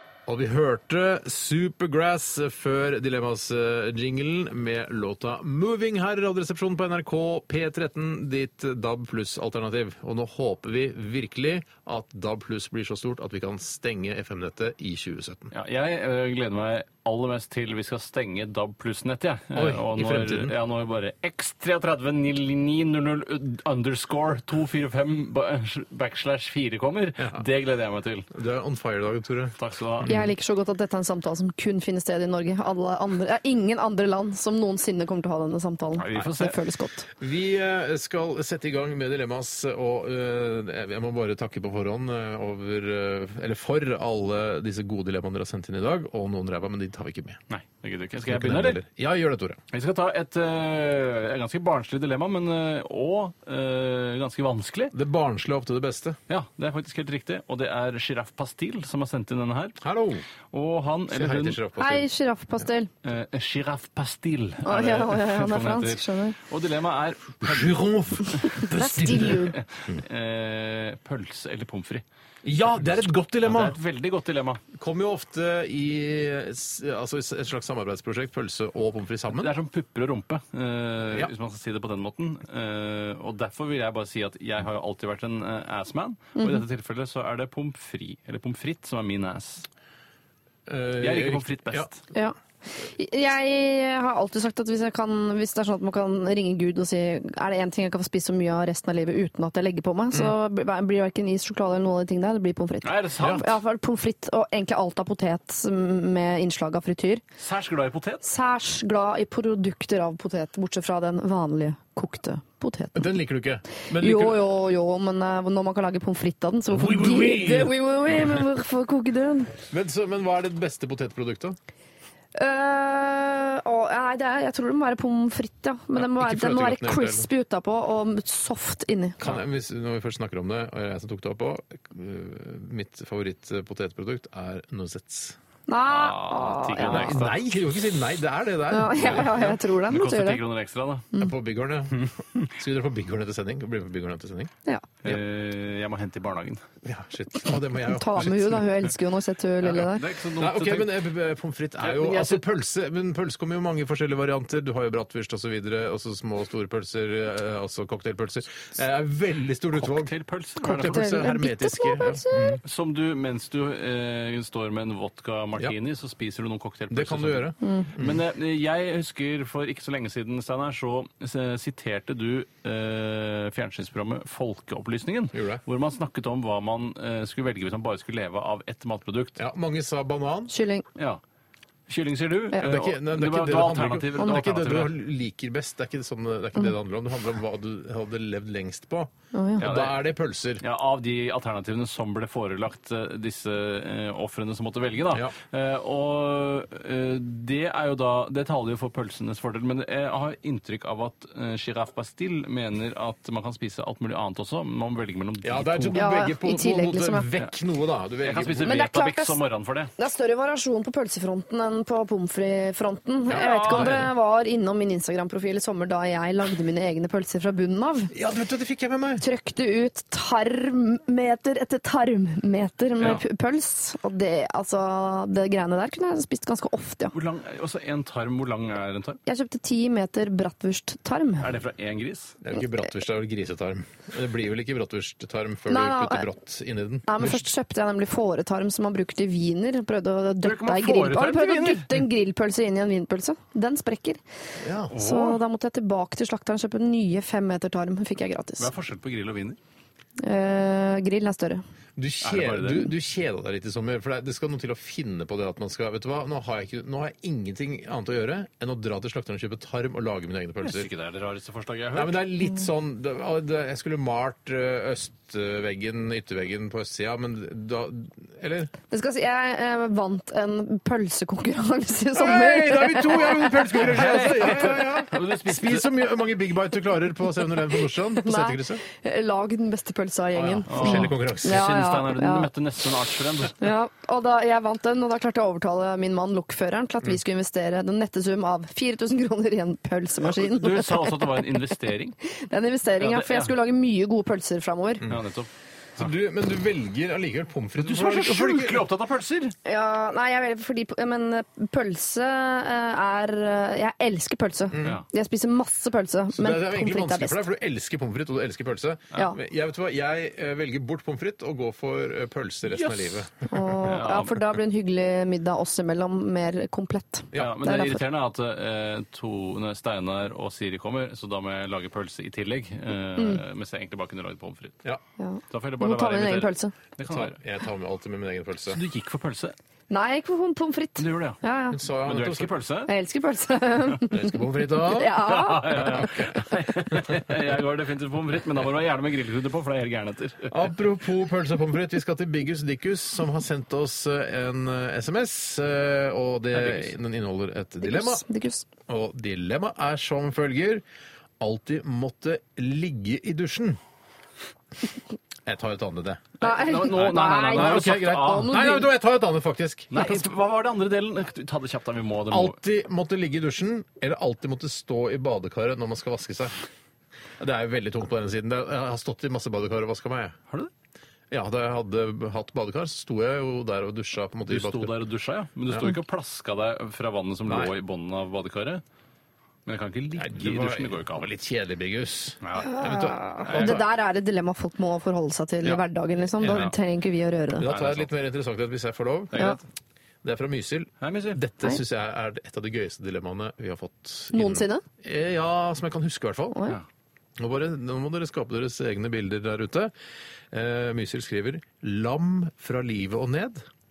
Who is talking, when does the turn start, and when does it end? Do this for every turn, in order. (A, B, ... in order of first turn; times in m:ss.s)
0:00.2-0:15.5 A
0:15.5-0:28.3 B
0:19.5-0:20.5 A
0:28.3-0:30.3 A
0:29.6-0:30.1 B
0:30.1-0:37.1 C
0:36.0-0:36.5 B
0:37.2-0:47.4 A
0:47.5-0:48.8 B
0:48.2-0:49.6 A
0:49.7-0:54.9 B
0:54.9-0:56.2 A
0:56.3-0:59.8 B
0:59.8-1:00.2 A
1:00.5-1:01.6 B
1:01.1-1:02.1 A
1:01.8-1:02.9 C
1:03.0-1:08.4 B
1:04.6-1:06.4 C
1:07.4-1:10.0 A
1:08.6-1:09.5 C
1:09.1-1:12.0 B
1:12.4-1:13.8 A
1:13.4-1:14.6 B
1:14.7-1:19.5 A
1:19.4-1:29.6 B
1:26.4-1:26.6 C
1:30.7-1:31.9 A
1:31.0-1:32.0 B
1:32.1-1:47.2 C
1:42.8-1:43.5 B
1:47.4-1:48.2 B
1:48.2-1:53.0 C
1:52.9-1:54.4 A
1:54.0-1:59.5 C
1:56.7-1:57.7 A
1:59.7-2:01.6 A
2:02.4-2:09.2 C
2:06.0-2:07.3 A
2:09.2-2:15.4 A
2:15.7-2:17.2 C
2:15.9-2:17.5 B
2:16.8-2:19.6 A
2:18.7-2:20.4 C
2:19.0-2:21.1 B
2:21.2-2:24.5 A
2:25.0-2:26.6 B
2:26.8-2:28.6 A
2:27.9-2:30.0 C
2:29.6-2:31.0 B
2:30.4-2:42.6 A
2:31.8-2:32.4 B
2:39.8-2:41.1 B
2:40.7-2:42.6 C
2:42.6-2:59.4 B
2:46.9-2:48.2 A
2:55.3-2:55.6 A
2:59.4-3:00.5 A
3:00.5-3:00.8 C
3:01.9-3:04.9 B
3:02.6-3:10.6 A
3:09.3-3:09.6 C
3:09.6-3:10.0 B
3:10.6-3:26.0 B
3:25.4-3:28.7 A
3:25.9-3:27.3 C
3:28.2-3:29.9 B
3:28.6-3:29.4 C
3:30.0-3:38.1 C
3:33.3-3:34.1 A
3:33.6-3:33.9 B
3:38.1-3:39.2 A
3:39.2-3:47.1 C
3:47.1-3:49.2 B
3:49.2-3:51.5 C
3:51.4-3:52.4 B
3:52.4-3:57.5 A
3:55.7-3:56.2 C
3:57.1-4:04.2 C
4:00.4-4:02.0 B
4:04.6-4:05.0 A
4:04.9-4:08.7 C
4:05.0-4:05.4 B
4:08.6-4:09.6 B
4:10.2-4:11.6 C
4:12.0-4:20.9 A
4:12.2-4:12.9 B
4:20.6-4:22.2 B
4:21.9-4:28.7 A
4:28.9-4:33.8 C
4:32.1-4:38.8 A
4:33.7-4:35.9 B
4:38.2-4:42.5 C
4:40.3-4:41.7 A
4:40.7-4:43.6 B
4:43.6-4:51.6 C
4:50.2-4:52.2 B
4:52.3-4:55.1 C
4:53.0-4:53.5 B
4:55.1-4:56.1 B
4:56.0-4:58.8 A
4:57.8-4:59.5 B
4:59.6-5:07.4 C
5:04.7-5:05.0 A
5:06.3-5:13.3 A
5:12.7-5:13.2 B
5:13.5-5:18.0 C
5:13.8-5:14.4 B
5:17.4-5:24.8 B
5:25.2-5:26.7 C
5:25.5-5:27.4 B
5:27.0-5:28.8 A
5:28.7-5:29.5 B
5:29.9-5:31.8 C
5:31.0-5:31.4 B
5:31.7-5:32.5 A
5:32.0-5:32.9 B
5:32.9-5:34.3 C
5:34.1-5:35.2 A
5:34.8-5:35.9 C
5:35.2-5:40.7 B
5:35.8-5:36.4 A
5:40.5-5:48.2 A
5:46.5-5:46.9 B
5:47.8-5:48.6 C
5:48.9-5:50.8 A
5:51.4-5:53.8 A
5:55.4-5:56.3 A
5:56.4-5:58.8 B
5:56.4-5:58.8 C
5:57.0-6:00.3 A
5:59.9-6:02.6 B
6:02.3-6:06.5 A
6:07.4-6:10.4 A
6:11.3-6:14.9 A
6:14.5-6:18.8 B
6:17.5-6:17.7 A
6:19.6-6:21.3 B
6:20.1-6:23.8 A
6:22.4-6:22.7 B
6:22.6-6:27.6 C
6:23.5-6:23.8 B
6:26.4-6:26.7 A
6:26.4-6:26.7 B
6:27.6-6:29.6 A
6:27.6-6:28.1 B
6:29.3-6:29.6 B
6:30.2-6:36.6 A
6:31.0-6:31.4 B
6:34.3-6:34.8 C
6:37.4-6:39.9 A
6:40.5-6:43.6 A